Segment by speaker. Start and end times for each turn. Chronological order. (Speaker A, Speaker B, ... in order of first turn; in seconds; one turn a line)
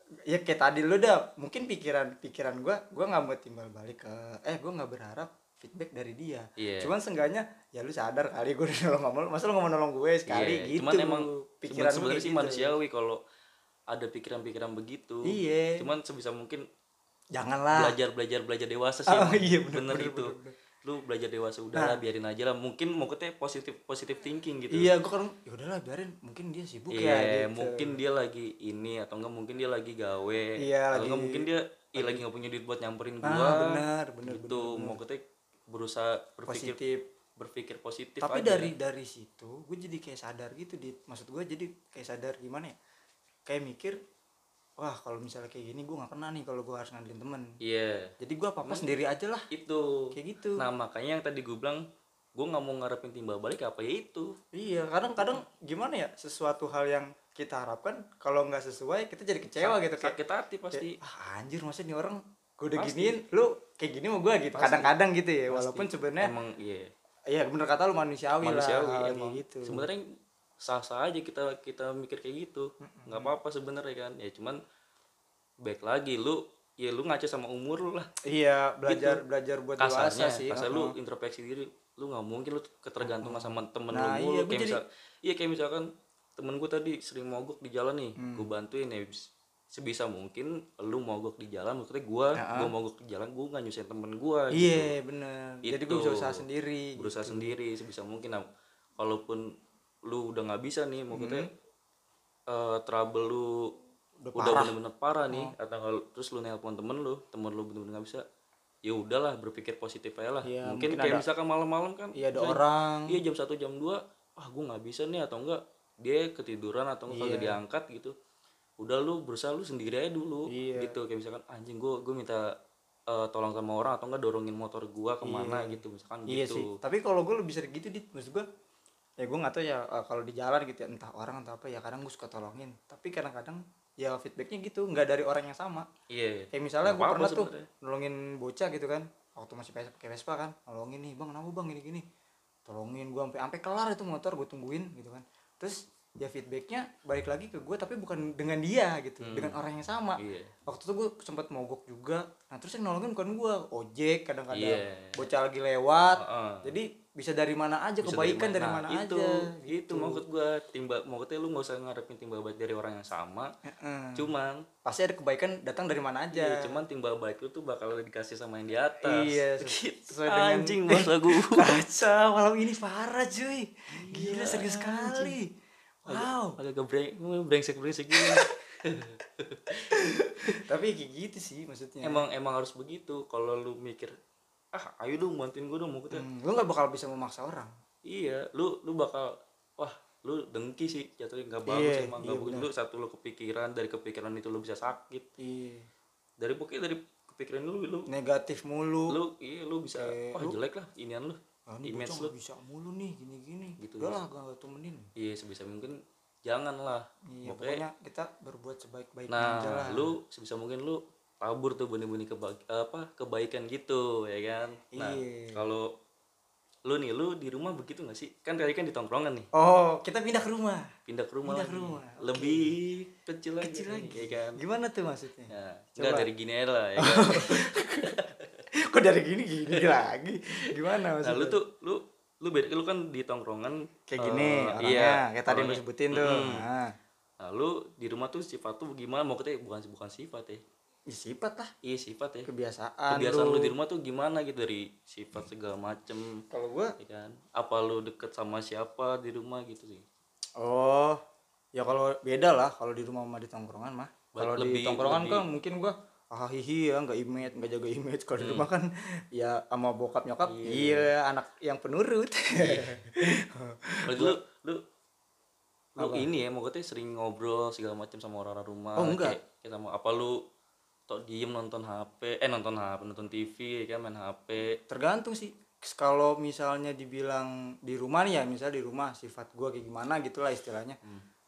Speaker A: 0.3-12.7
Speaker B: 6.6-6.9
Speaker B: 10.3-13.2
Speaker B: 13.9-16.6
Speaker A: 15.2-15.8
Speaker A: 17.3-17.9
Speaker B: 17.7-24.9
Speaker A: 19.1-20.5
Speaker A: 24.7-27.9
Speaker B: 26.9-36.8
Speaker A: 30.6-32.2
Speaker A: 33.2-35.0
Speaker A: 36.5-37.0
Speaker B: 37.4-38.7
Speaker A: 38.2-42.8
Speaker A: 43.5-44.0
Speaker A: 44.8-47.5
Speaker B: 47.6-48.9
Speaker A: 48.2-49.5
Speaker B: 49.5-51.8
Speaker A: 50.1-50.6
Speaker B: 52.4-54.3
Speaker A: 54.5-60.1
Speaker B: 59.6-61.0
Speaker A: 60.7-66.3
Speaker B: 62.8-63.2
Speaker B: 64.5-64.9
Speaker B: 65.5-66.9
Speaker A: 67.3-69.8
Speaker B: 68.4-70.0
Speaker B: 70.6-74.6
Speaker A: 72.8-73.3
Speaker B: 75.6-78.1
Speaker A: 78.2-80.9
Speaker B: 78.8-79.2
Speaker B: 79.8-94.9
Speaker A: 83.0-84.8
Speaker A: 88.2-88.5
Speaker A: 92.4-92.7
Speaker A: 94.5-97.5
Speaker B: 95.6-96.4
Speaker B: 97.0-98.4
Speaker B: 99.0-99.5
Speaker B: 100.0-101.5
Speaker A: 101.1-101.5
Speaker B: 102.5-103.7
Speaker A: 104.2-104.7
Speaker B: 104.3-108.2
Speaker A: 105.3-105.5
Speaker B: 108.8-118.1
Speaker A: 110.4-111.2
Speaker A: 112.1-113.2
Speaker A: 117.1-117.6
Speaker B: 118.8-122.5
Speaker A: 120.5-121.0
Speaker B: 123.1-126.8
Speaker A: 125.2-128.4
Speaker A: 129.2-135.9
Speaker B: 136.1-137.7
Speaker A: 136.5-142.0
Speaker A: 142.7-160.2
Speaker B: 149.2-149.6
Speaker B: 150.2-150.5
Speaker B: 154.5-155.2
Speaker B: 156.2-156.8
Speaker B: 158.0-163.5
Speaker A: 163.6-164.3
Speaker B: 164.2-164.6
Speaker A: 164.8-166.7
Speaker B: 166.3-171.8
Speaker A: 169.0-175.5
Speaker B: 173.9-175.3
Speaker A: 176.0-176.6
Speaker B: 176.1-180.6
Speaker A: 178.1-178.5
Speaker A: 179.9-182.2
Speaker B: 182.0-184.1
Speaker B: 184.7-186.2
Speaker A: 186.1-187.7
Speaker B: 188.1-195.3
Speaker A: 191.7-192.7
Speaker A: 195.4-195.9
Speaker B: 196.4-198.1
Speaker A: 198.1-199.2
Speaker B: 199.1-202.3
Speaker A: 199.9-200.6
Speaker A: 201.7-205.1
Speaker B: 203.8-204.2
Speaker B: 205.2-207.8
Speaker A: 207.3-210.1
Speaker B: 209.3-215.9
Speaker A: 214.9-215.6
Speaker B: 216.8-219.5
Speaker A: 219.5-220.9
Speaker B: 221.1-224.6
Speaker A: 221.4-222.7
Speaker A: 223.6-226.3
Speaker B: 225.5-228.6
Speaker A: 227.0-228.2
Speaker A: 228.7-231.6
Speaker B: 229.7-230.0
Speaker B: 230.7-236.7
Speaker A: 234.1-236.9
Speaker B: 237.4-240.6
Speaker A: 241.1-241.7
Speaker B: 241.8-242.5
Speaker A: 242.5-243.7
Speaker B: 243.1-246.4
Speaker A: 246.5-246.9
Speaker B: 247.0-250.0
Speaker A: 250.6-251.2
Speaker A: 251.7-264.4
Speaker B: 254.3-255.4
Speaker B: 258.4-258.7
Speaker B: 260.4-261.1
Speaker B: 262.6-263.0
Speaker B: 264.1-264.8
Speaker B: 265.9-270.4
Speaker A: 266.0-266.3
Speaker A: 269.0-269.4
Speaker B: 271.1-274.8
Speaker A: 274.9-281.0